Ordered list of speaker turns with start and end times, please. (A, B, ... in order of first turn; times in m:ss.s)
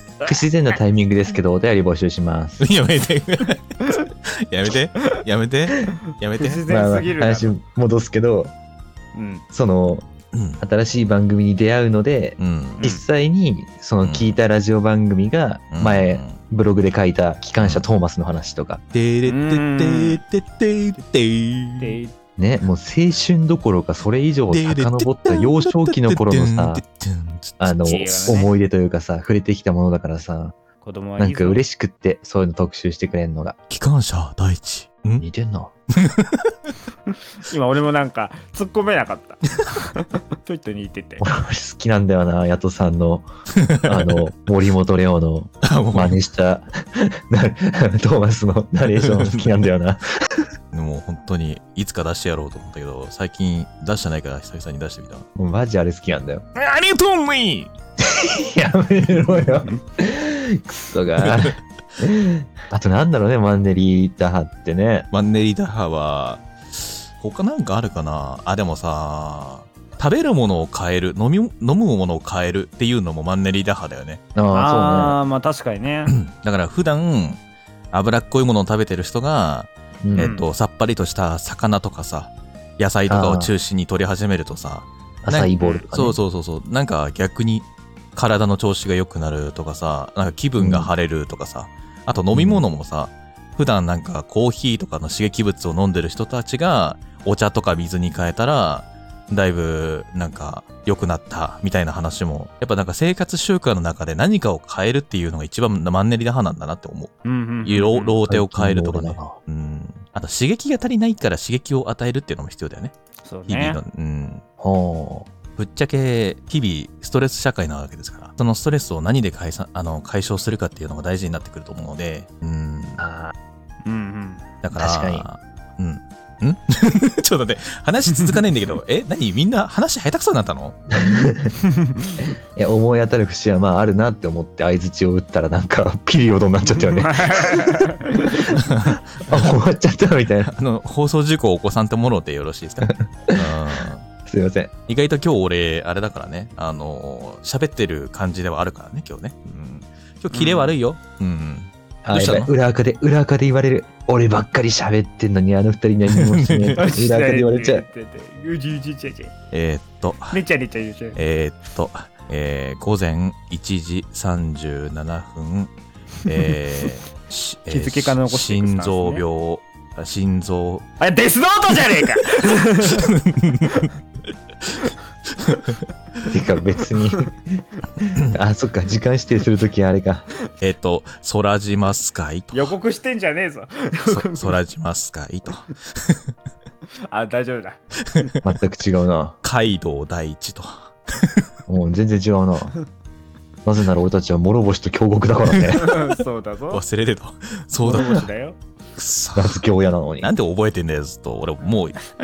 0:00.2-0:02.6 A
0:02.6-0:06.6 B
0:06.4-0:07.6 C
0:06.7-0:08.5 A
0:09.1-0:09.4 C
0:09.5-0:10.1 A
0:10.3-0:10.6 B
0:10.6-0:18.8 A
0:12.4-0:12.8 B
0:14.0-0:14.4 B
0:15.7-0:16.4 B
0:18.9-0:22.0 B
0:19.2-0:20.2 C
0:21.8-0:22.1 C
0:22.4-0:26.8 A
0:24.5-0:28.3 B
0:27.6-0:30.5 A
0:27.8-0:28.5 C
0:30.8-0:31.6 C
0:31.2-0:33.6 A
0:33.7-0:35.2 B
0:35.2-0:35.7 A
0:35.9-0:36.5 B
0:37.4-0:41.2 C
0:41.2-0:43.3 A
0:43.6-0:44.2 B
0:43.8-0:50.4 A
0:45.6-0:46.2 B
0:48.9-0:49.6 B
0:50.7-0:55.2 B
0:55.4-0:56.4 A
0:56.5-0:57.7 B
0:58.0-1:05.1 A
1:01.2-1:01.5 B
1:05.1-1:14.2 B
1:14.3-1:15.2 A
1:14.5-1:16.1 C
1:16.1-1:17.4 B
1:17.9-1:52.9 B
1:20.0-1:20.3 A
1:20.2-1:20.4 C
1:23.1-1:23.5 A
1:25.2-1:26.2 A
1:30.6-1:30.9 A
1:32.3-1:32.6 A
1:47.2-1:48.2 C
1:48.3-1:49.4 A
1:53.2-1:53.8 C
1:53.5-1:54.4 B
1:54.6-1:55.3 A
1:55.6-2:03.0 B
2:03.0-2:03.3 A
2:03.8-2:04.4 C
2:04.6-2:10.8 B
2:04.8-2:05.2 A
2:10.9-2:11.5 A
2:11.7-2:12.2 C
2:12.6-2:20.5 A
2:16.7-2:18.4 C
2:18.5-2:19.5 B
2:20.4-2:24.0 B
2:22.8-2:24.7 A
2:24.9-2:32.5 B
2:30.3-2:30.8 C
2:32.0-2:37.9 A
2:36.1-2:36.9 B
2:36.8-2:39.3 C
2:39.5-2:40.4 B
2:40.3-2:41.2 C
2:41.1-2:45.7 B
2:46.2-2:50.9 B
2:47.7-2:49.2 C
2:51.0-2:53.1 C
2:52.8-2:53.9 B
2:55.4-2:55.8 B
2:56.3-2:57.3 A
2:58.0-3:00.3 A
3:00.6-3:02.7 B
3:02.5-3:04.6 C
3:04.1-3:06.2 B
3:07.1-3:08.3 C
3:08.4-3:09.4 A
3:09.4-3:11.5 B
3:11.7-3:12.7 A
3:13.6-3:15.9 A
3:15.6-3:16.0 B
3:15.8-3:16.8 C
3:16.7-3:18.3 B
3:17.8-3:18.6 C
3:19.0-3:19.6 B
3:19.3-3:20.3 A
3:20.2-3:22.0 B